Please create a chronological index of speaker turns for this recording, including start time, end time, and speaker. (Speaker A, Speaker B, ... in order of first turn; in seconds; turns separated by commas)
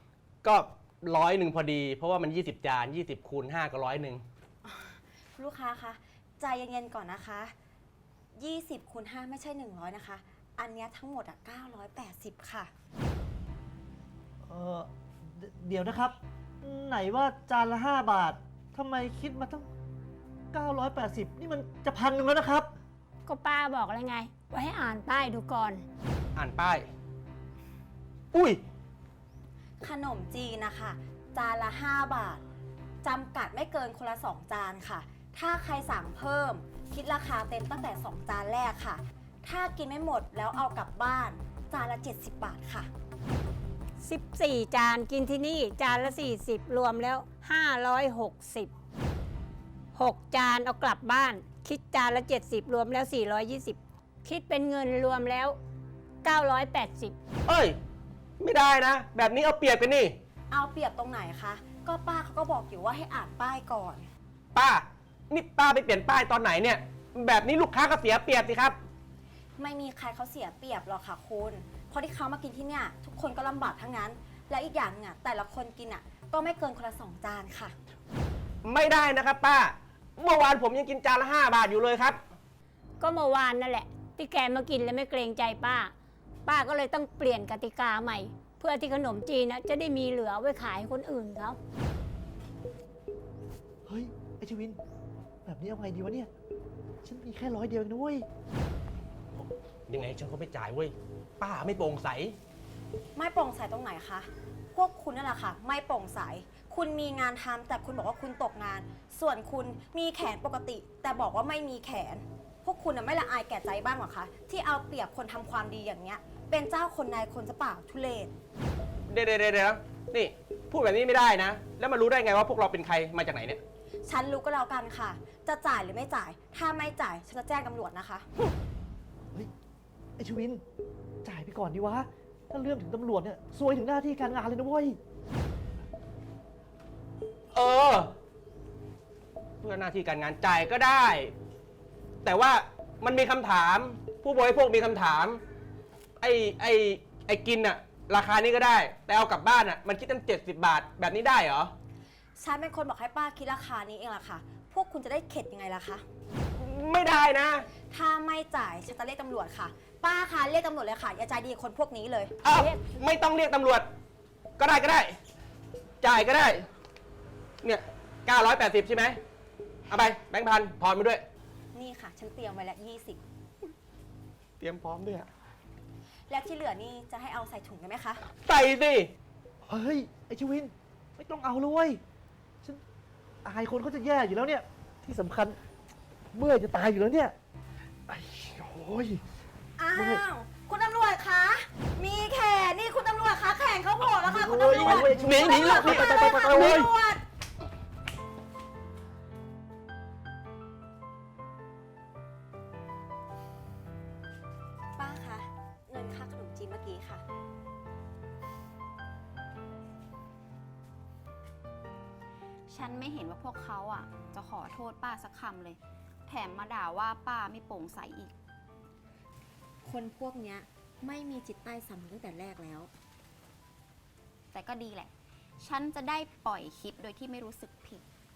Speaker A: 0.4-4.2, Speaker B: 4.6-7.5, Speaker B: 8.3-12.7, Speaker C: 14.4-19.6, Speaker C: 20.5-22.7, Speaker D: 23.2-25.8, Speaker A: 26.4-26.9, Speaker A: 28.3-28.6, Speaker B: 29.8-32.4, Speaker B: 33.0-42.9, Speaker D: 44.0-48.7, Speaker D: 49.9-55.6, Speaker D: 56.2-57.1, Speaker A: 57.5-57.8, Speaker A: 58.4-60.1, Speaker B: 60.5-64.1, Speaker A: 64.5-68.8, Speaker B: 69.6-77.7, Speaker A: 78.6-82.2, Speaker D: 83.0-85.9, Speaker D: 86.5-91.6, Speaker C: 93.8-94.8, Speaker C: 95.4-96.3, Speaker C: 97.0-98.2, Speaker A: 99.3-102.4, Speaker B: 103.1-118.3, Speaker A: 119.1-123.6, Speaker B: 124.0-128.2, Speaker C: 130.2-130.6, Speaker C: 131.2-135.0, Speaker A: 137.5-138.1, Speaker A: 139.6-141.3, Speaker A: 142.2-145.4, Speaker A: 146.2-151.7, Speaker B: 152.4-156.0, Speaker A: 156.5-157.7, Speaker B: 157.8-162.3, Speaker A: 162.4-163.9, Speaker D: 162.4-162.9, Speaker A: 164.6-165.1, Speaker A: 166.0-166.7, Speaker A: 167.6-169.2, Speaker A: 169.9-171.2, Speaker B: 171.7-173.2, Speaker A: 174.6-175.3, Speaker B: 176.3-178.2, Speaker A: 178.4-179.1, Speaker C: 179.6-182.0, Speaker C: 183.4-185.6, Speaker C: 186.3-187.3, Speaker C: 188.1-189.2, Speaker B: 189.8-197.2, Speaker C: 189.9-190.2, Speaker C: 194.2-196.9, Speaker A: 194.8-196.8, Speaker B: 205.0-207.2, Speaker E: 212.7-218.3, Speaker B: 219.8-222.9, Speaker E: 224.5-228.0